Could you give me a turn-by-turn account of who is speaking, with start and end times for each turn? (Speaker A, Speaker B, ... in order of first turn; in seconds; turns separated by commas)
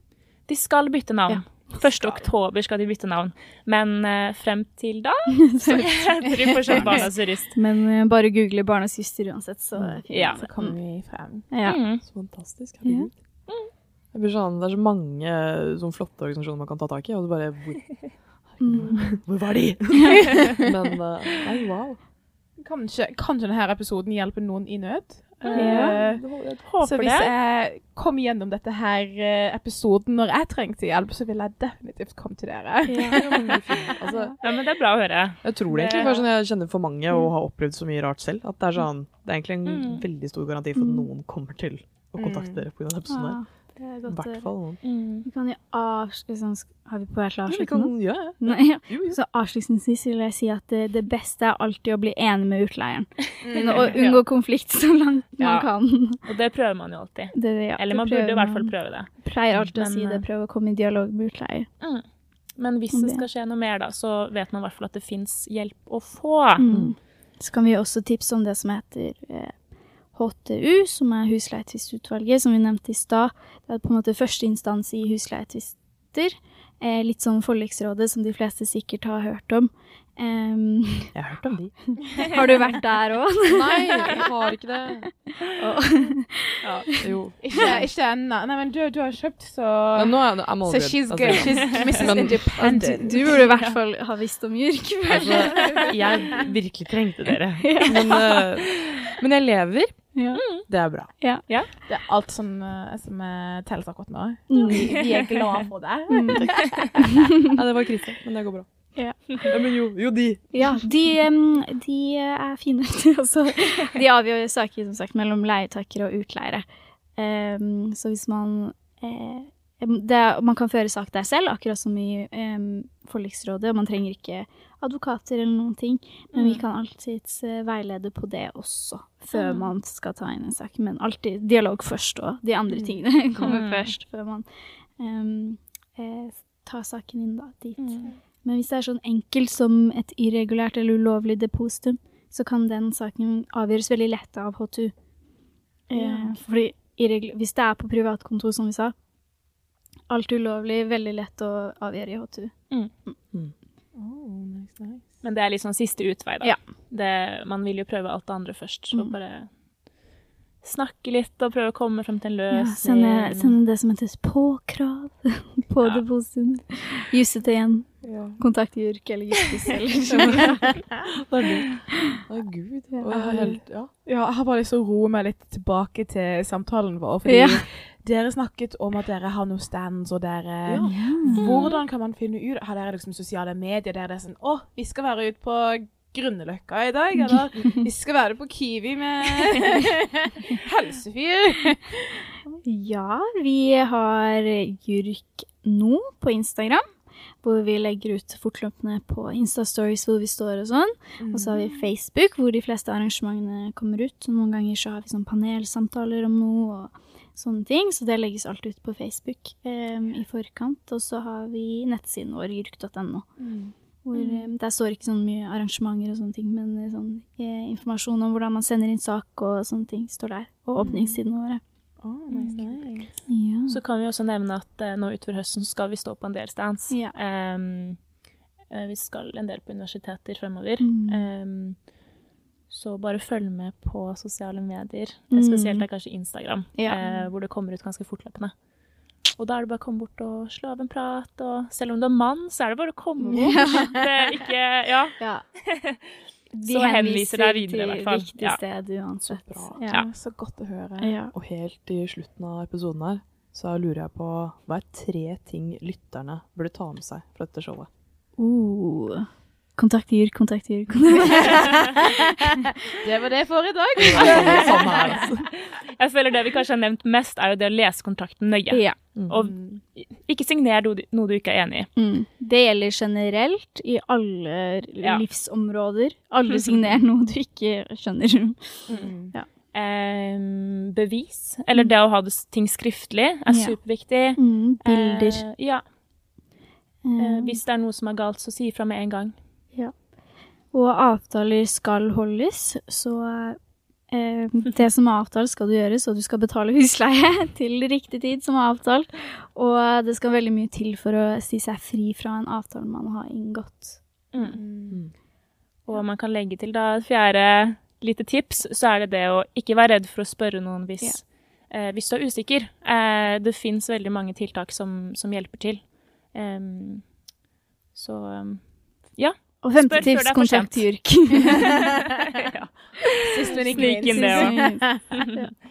Speaker A: 0.5-7.5, Speaker B: 2.0-2.3, Speaker C: 5.3-10.8, Speaker B: 6.8-7.0, Speaker B: 9.7-11.5, Speaker A: 10.1-10.4, Speaker C: 11.5-11.8, Speaker A: 11.6-12.0, Speaker D: 12.0-13.2, Speaker C: 12.8-13.1, Speaker D: 14.1-22.0, Speaker C: 18.6-19.2, Speaker B: 18.8-19.1, Speaker B: 22.6-26.2, Speaker A: 25.4-26.0, Speaker C: 25.5-25.9, Speaker D: 25.6-26.6, Speaker A: 26.6-27.3, Speaker B: 26.8-33.9, Speaker C: 32.9-33.3, Speaker D: 33.1-34.4, Speaker C: 34.1-34.4, Speaker A: 34.4-36.3, Speaker D: 35.4-43.4, Speaker A: 39.6-40.0, Speaker C: 40.8-41.1, Speaker B: 42.2-42.6, Speaker C: 43.1-44.5, Speaker D: 44.1-44.8, Speaker A: 44.8-45.2, Speaker C: 45.2-56.2, Speaker D: 47.5-49.2, Speaker B: 53.4-54.1, Speaker A: 53.7-54.2, Speaker A: 55.4-55.7, Speaker A: 56.2-60.2, Speaker C: 57.3-61.7, Speaker A: 62.5-66.7, Speaker C: 62.9-63.2, Speaker C: 66.6-69.6, Speaker D: 66.7-67.0, Speaker C: 70.1-81.1, Speaker D: 81.1-81.9, Speaker C: 82.1-84.3, Speaker D: 83.5-85.1, Speaker C: 85.5-87.8, Speaker A: 86.6-86.9, Speaker D: 87.0-87.8, Speaker B: 87.4-93.4, Speaker D: 90.0-93.1, Speaker C: 92.8-96.1, Speaker A: 93.4-93.8, Speaker D: 95.1-101.1, Speaker C: 97.6-98.5, Speaker C: 100.1-100.5, Speaker A: 100.3-100.7, Speaker C: 101.2-101.4, Speaker B: 101.8-107.0, Speaker C: 104.5-105.1, Speaker A: 104.6-105.4, Speaker C: 106.1-106.6, Speaker D: 106.3-110.6, Speaker C: 108.9-109.5, Speaker C: 110.5-116.6, Speaker C: 117.2-144.9, Speaker A: 126.3-126.6, Speaker A: 129.3-129.7, Speaker A: 133.4-133.9, Speaker A: 137.8-138.1, Speaker C: 145.9-148.9, Speaker B: 145.9-146.4, Speaker C: 150.1-152.5, Speaker B: 153.9-155.0, Speaker A: 155.2-159.5, Speaker A: 160.6-163.6, Speaker C: 162.5-170.8, Speaker B: 168.0-168.4, Speaker D: 170.2-170.6, Speaker D: 171.1-173.9, Speaker C: 172.9-173.3, Speaker B: 173.1-192.2, Speaker C: 177.2-177.6, Speaker D: 180.7-181.3, Speaker C: 180.8-181.5, Speaker A: 181.3-181.8, Speaker C: 192.6-196.8, Speaker C: 197.4-213.3, Speaker B: 201.2-201.8, Speaker B: 213.4-213.7, Speaker C: 214.0-221.6, Speaker A: 214.1-214.5, Speaker B: 220.8-221.2, Speaker B: 222.0-223.1, Speaker A: 222.3-223.1, Speaker C: 223.3-223.8, Speaker A: 223.7-228.0, Speaker A: 228.7-231.9, Speaker C: 230.8-231.3, Speaker A: 232.7-238.5, Speaker C: 235.3-235.8, Speaker B: 237.0-237.3, Speaker A: 239.4-246.0, Speaker C: 243.2-244.0, Speaker C: 245.2-245.4, Speaker C: 246.5-250.0, Speaker A: 246.6-248.6, Speaker D: 249.2-249.8, Speaker B: 249.9-251.1, Speaker C: 251.0-251.3, Speaker D: 251.3-257.9, Speaker C: 258.4-262.6, Speaker B: 263.0-265.2, Speaker D: 264.1-265.5, Speaker A: 264.1-271.9, Speaker C: 268.7-269.0, Speaker B: 269.3-269.8, Speaker C: 271.9-279.5, Speaker A: 276.4-276.9, Speaker B: 278.9-279.3, Speaker A: 279.7-285.8, Speaker C: 283.5-285.4, Speaker C: 287.0-287.6, Speaker A: 287.2-289.3, Speaker C: 290.7-293.6, Speaker C: 294.1-304.0, Speaker A: 304.3-304.6, Speaker B: 304.4-305.0, Speaker A: 305.9-317.1, Speaker A: 317.9-325.3, Speaker C: 319.6-322.0, Speaker B: 323.2-325.2, Speaker C: 323.6-325.5